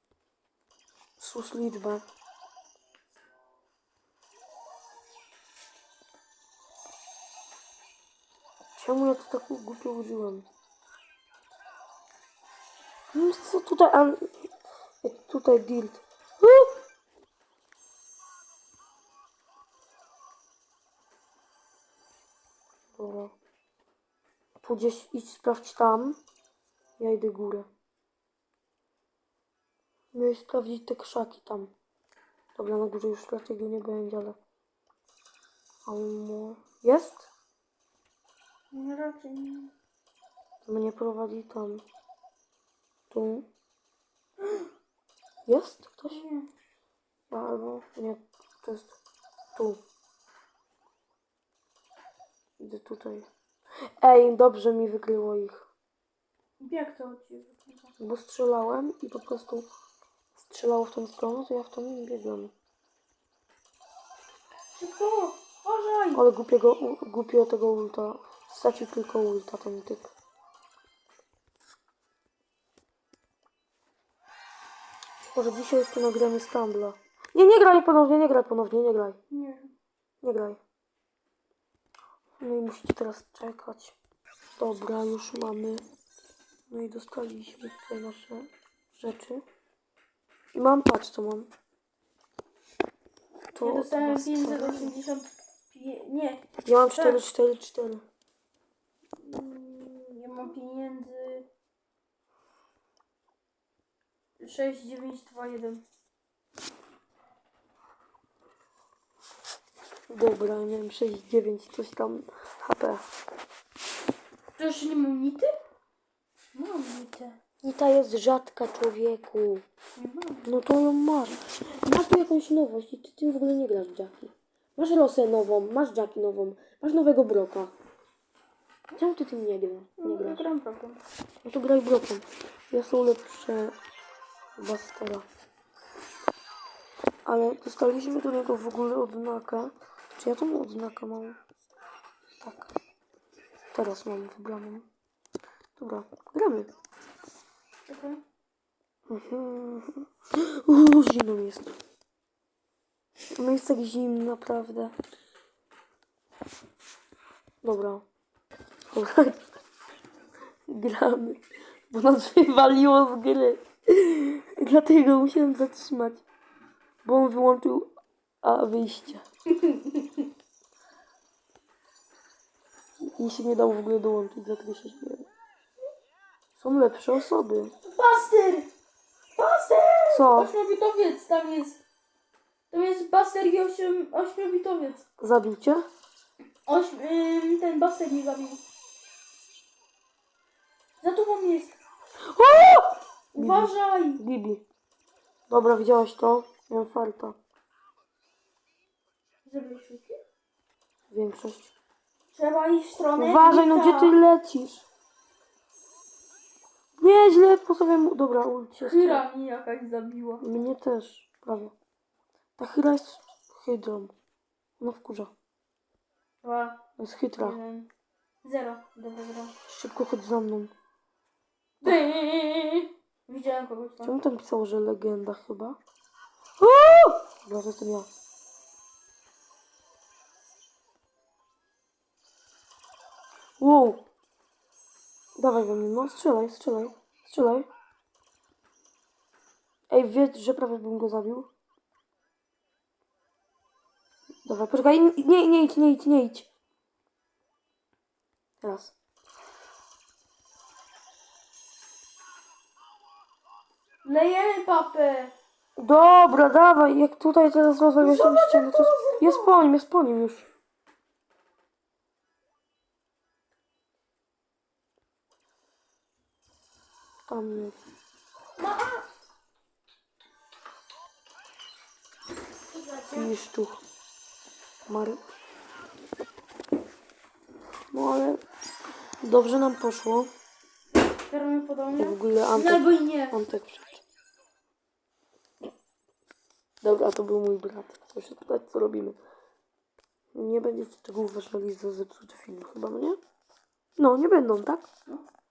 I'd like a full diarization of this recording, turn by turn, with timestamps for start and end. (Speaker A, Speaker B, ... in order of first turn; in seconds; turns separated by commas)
Speaker A: 1.2-2.0, Speaker A: 8.8-10.5, Speaker A: 13.1-14.3, Speaker A: 15.0-16.8, Speaker A: 23.0-23.3, Speaker A: 24.6-26.2, Speaker A: 27.0-27.7, Speaker A: 30.1-31.7, Speaker A: 32.6-34.4, Speaker A: 35.9-37.3, Speaker B: 38.7-39.7, Speaker A: 40.7-41.8, Speaker A: 43.1-43.5, Speaker A: 45.5-46.2, Speaker B: 46.1-46.5, Speaker A: 47.3-49.0, Speaker A: 49.5-49.8, Speaker A: 52.6-53.3, Speaker A: 54.0-55.7, Speaker B: 56.6-57.9, Speaker A: 58.0-59.7, Speaker A: 60.4-62.5, Speaker B: 64.8-66.2, Speaker A: 66.1-70.1, Speaker A: 75.3-79.2, Speaker B: 79.3-79.7, Speaker A: 80.2-80.6, Speaker A: 82.4-84.0, Speaker A: 84.6-85.8, Speaker A: 86.7-89.4, Speaker A: 90.5-91.5, Speaker A: 93.5-94.9, Speaker B: 93.6-97.2, Speaker A: 96.7-98.0, Speaker B: 99.2-101.5, Speaker B: 104.4-105.8, Speaker A: 110.1-113.0, Speaker B: 114.6-115.5, Speaker B: 116.5-117.4, Speaker A: 117.6-119.7, Speaker B: 120.0-120.5, Speaker A: 120.5-127.7, Speaker A: 128.9-130.5, Speaker B: 130.0-131.0, Speaker A: 131.4-133.8, Speaker A: 134.6-135.3, Speaker A: 137.3-141.4, Speaker A: 142.4-142.7, Speaker A: 143.7-144.9, Speaker A: 145.8-146.7, Speaker B: 147.9-148.2, Speaker A: 149.1-151.8, Speaker A: 153.3-154.9, Speaker A: 157.6-158.1, Speaker A: 158.9-159.4, Speaker A: 160.7-166.2, Speaker A: 167.1-167.9, Speaker A: 168.4-169.2, Speaker B: 169.6-170.2, Speaker A: 173.2-175.3, Speaker A: 176.6-177.7, Speaker B: 177.8-178.7, Speaker B: 179.4-181.8, Speaker A: 180.1-180.5, Speaker B: 182.7-185.0, Speaker A: 185.2-185.8, Speaker B: 186.7-188.6, Speaker B: 191.0-191.8, Speaker A: 192.3-194.6, Speaker B: 193.3-194.2, Speaker A: 195.5-197.4, Speaker B: 199.5-200.2, Speaker A: 201.1-201.7, Speaker B: 202.3-204.2, Speaker A: 203.2-204.8, Speaker A: 207.0-209.2, Speaker B: 208.8-210.5, Speaker A: 210.4-211.7, Speaker A: 212.6-214.1, Speaker A: 214.8-215.3, Speaker B: 216.4-216.8, Speaker A: 217.0-217.6, Speaker B: 217.4-217.9, Speaker B: 218.4-219.5, Speaker A: 219.7-220.7, Speaker B: 221.8-224.1, Speaker A: 224.0-225.8, Speaker A: 226.6-228.1, Speaker A: 233.6-234.0, Speaker A: 235.4-237.7, Speaker A: 239.9-241.5, Speaker A: 244.4-246.5, Speaker A: 248.6-248.9, Speaker B: 254.0-255.3, Speaker A: 255.8-260.5, Speaker B: 258.0-259.5, Speaker A: 267.3-267.8, Speaker B: 268.6-269.1, Speaker B: 272.7-273.3, Speaker A: 273.1-273.8, Speaker A: 274.9-275.2, Speaker A: 277.9-278.4, Speaker A: 279.2-280.3, Speaker B: 281.3-283.4, Speaker A: 282.0-284.0, Speaker A: 286.8-289.2, Speaker A: 290.3-293.2, Speaker A: 294.0-294.9